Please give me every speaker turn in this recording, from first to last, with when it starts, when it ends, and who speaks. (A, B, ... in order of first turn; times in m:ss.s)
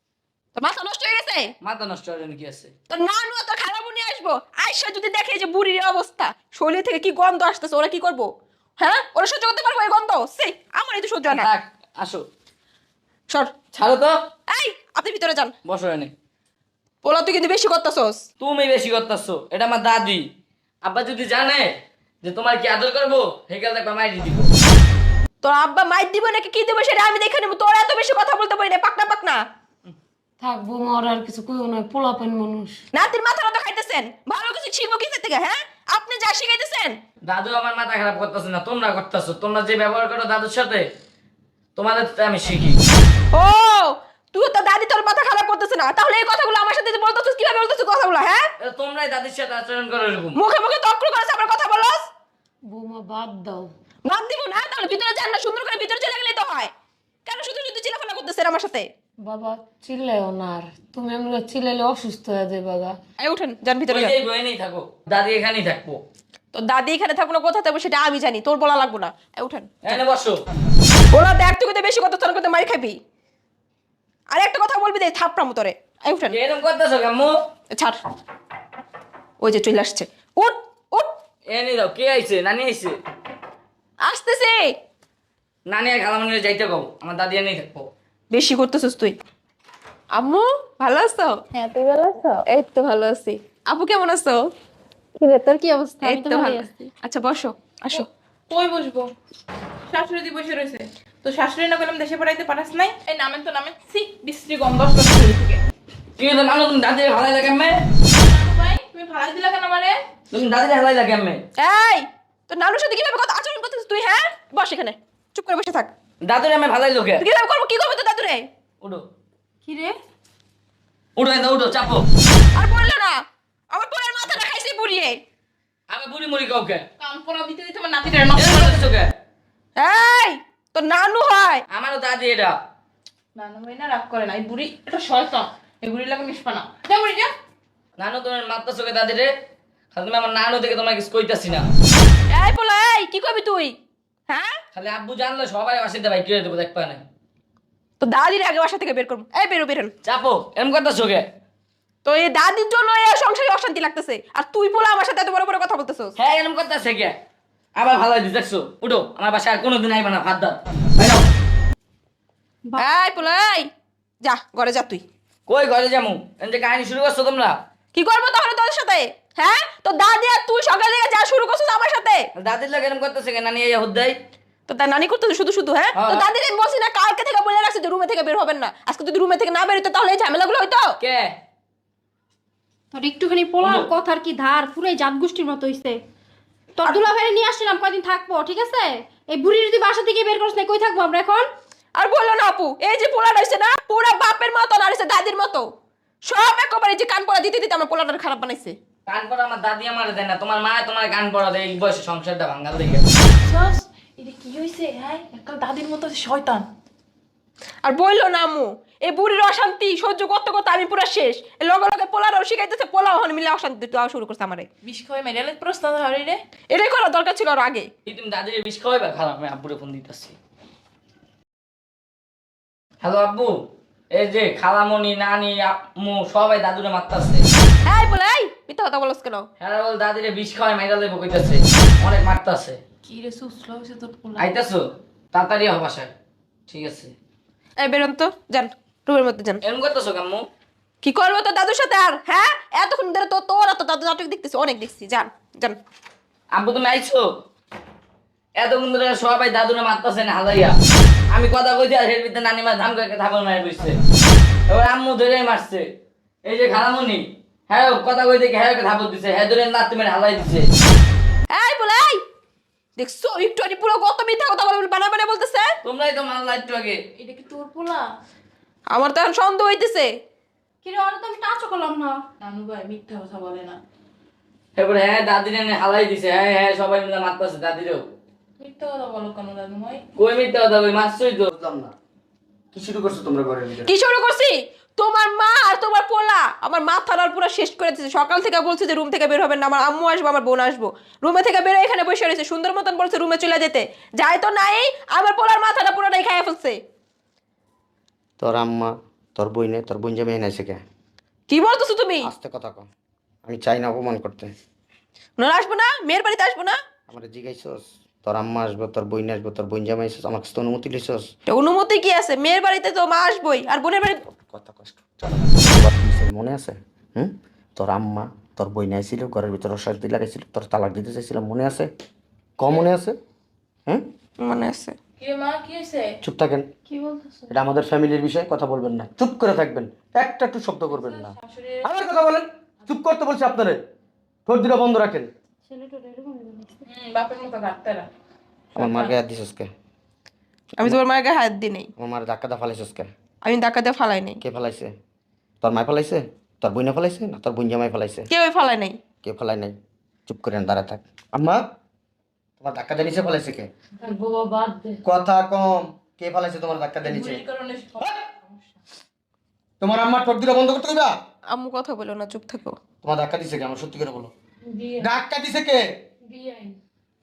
0:00.6-0:01.5 A
0:01.6-0:02.7 B
0:02.9-0:11.5 A
0:11.2-0:12.2 B
0:13.7-0:14.1 B
0:14.5-0:15.6 A
0:15.7-0:16.1 B
0:17.0-0:18.2 A
0:18.4-0:20.2 B
0:20.8-0:21.7 B
0:22.2-0:24.5 B
0:25.4-0:29.4 A
0:30.4-0:32.8 C
0:32.9-0:37.0 A
0:37.2-0:40.9 B
0:41.8-0:42.8 B
0:43.3-0:48.4 A
0:48.6-0:50.4 B
0:50.4-0:52.1 A
0:52.7-0:53.7 C
0:54.0-0:56.7 A
0:57.3-0:58.9 A
0:59.2-1:03.0 C
1:03.2-1:04.1 A
1:03.9-1:06.0 B
1:06.5-1:10.0 A
1:09.8-1:10.4 B
1:11.1-1:13.0 A
1:14.3-1:16.4 A
1:16.3-1:17.3 B
1:17.7-1:18.0 A
1:19.4-1:21.1 A
1:21.5-1:23.0 B
1:24.0-1:24.7 A
1:25.7-1:27.9 B
1:28.3-1:29.2 A
1:30.1-1:31.4 A
1:31.5-1:32.4 D
1:32.4-1:34.4 A
1:35.2-1:36.7 D
1:36.0-1:38.1 A
1:37.9-1:39.1 E
1:39.9-1:45.6 E
1:46.2-1:47.8 B
1:48.1-1:50.0 E
1:50.3-1:51.4 B
1:51.6-1:55.9 A
1:56.2-1:57.2 B
1:57.2-1:58.4 A
1:59.6-2:00.0 D
2:01.2-2:02.0 B
2:02.6-2:03.2 A
2:03.7-2:05.2 A
2:05.9-2:06.8 B
2:07.0-2:08.9 E
2:08.4-2:09.1 B
2:09.8-2:11.6 A
2:11.7-2:12.6 B
2:13.4-2:17.3 E
2:18.0-2:19.3 B
2:19.9-2:21.7 B
2:22.3-2:23.7 A
2:24.3-2:24.6 A
2:24.8-2:27.0 B
2:28.0-2:29.9 A
2:30.0-2:31.3 B
2:32.0-2:36.1 A
2:36.2-2:37.2 B
2:37.8-2:41.3 B
2:42.7-2:43.1 D
2:42.8-2:43.7 A
2:44.2-2:45.0 A
2:45.5-2:47.6 B
2:47.9-2:52.3 A
2:52.4-2:54.2 B
2:54.7-3:00.9 A
2:55.9-2:56.2 B
3:01.0-3:01.3 B
3:02.9-3:06.0 D
3:03.6-3:03.9 B
3:06.8-3:11.5 D
3:12.0-3:15.7 A
3:16.2-3:18.8 A
3:19.1-3:23.0 B
3:23.4-3:26.7 E
3:27.8-3:34.7 A
3:34.8-3:36.4 E
3:36.7-3:37.9 A
3:38.1-3:40.4 B
3:43.0-3:43.5 B
3:44.1-3:47.4 B
3:47.9-3:49.5 A
3:49.6-3:52.8 B
3:53.0-3:54.5 E
3:54.4-3:56.1 B
3:56.7-3:57.1 B
3:57.8-3:59.6 A
3:59.6-4:00.5 B
4:01.0-4:05.8 A
4:06.5-4:07.2 B
4:08.6-4:10.8 B
4:11.3-4:14.0 B
4:14.7-4:15.9 B
4:16.4-4:20.7 B
4:21.5-4:22.2 A
4:23.0-4:25.7 A
4:25.8-4:27.0 B
4:27.2-4:28.1 E
4:28.9-4:30.1 A
4:30.8-4:32.2 D
4:32.4-4:33.8 E
4:34.8-4:38.1 B
4:38.6-4:40.0 E
4:40.2-4:41.5 B
4:41.5-4:41.9 F
4:42.7-4:43.9 F
4:43.9-4:56.8 A
4:58.4-5:00.8 F
5:01.5-5:02.3 A
5:02.2-5:02.9 F
5:03.5-5:04.5 F
5:05.4-5:06.8 A
5:07.1-5:11.3 F
5:11.5-5:14.2 A
5:14.4-5:21.9 F
5:22.6-5:23.2 F
5:22.6-5:22.9 E
5:24.4-5:25.0 A
5:25.2-5:26.2 E
5:26.2-5:26.7 F
5:26.9-5:27.5 D
5:27.5-5:33.8 F
5:30.9-5:32.0 E
5:34.5-5:35.3 F
5:35.7-5:36.9 D
5:36.9-5:38.1 E
5:38.8-5:39.2 E
5:38.8-5:39.7 F
5:40.8-5:41.9 A
5:42.0-5:43.1 F
5:43.4-5:44.4 A
5:44.4-5:44.9 F
5:45.6-5:48.2 F
5:48.3-5:49.0 A
5:49.2-5:49.8 F
5:50.3-5:51.6 F
5:52.6-5:53.7 F
5:54.0-5:55.0 C
5:55.0-5:57.4 F
5:57.0-5:58.8 E
5:59.8-6:01.1 F
6:01.5-6:02.8 A
6:03.0-6:04.3 F
6:04.7-6:05.1 C
6:05.0-6:05.8 F
6:06.3-6:06.8 C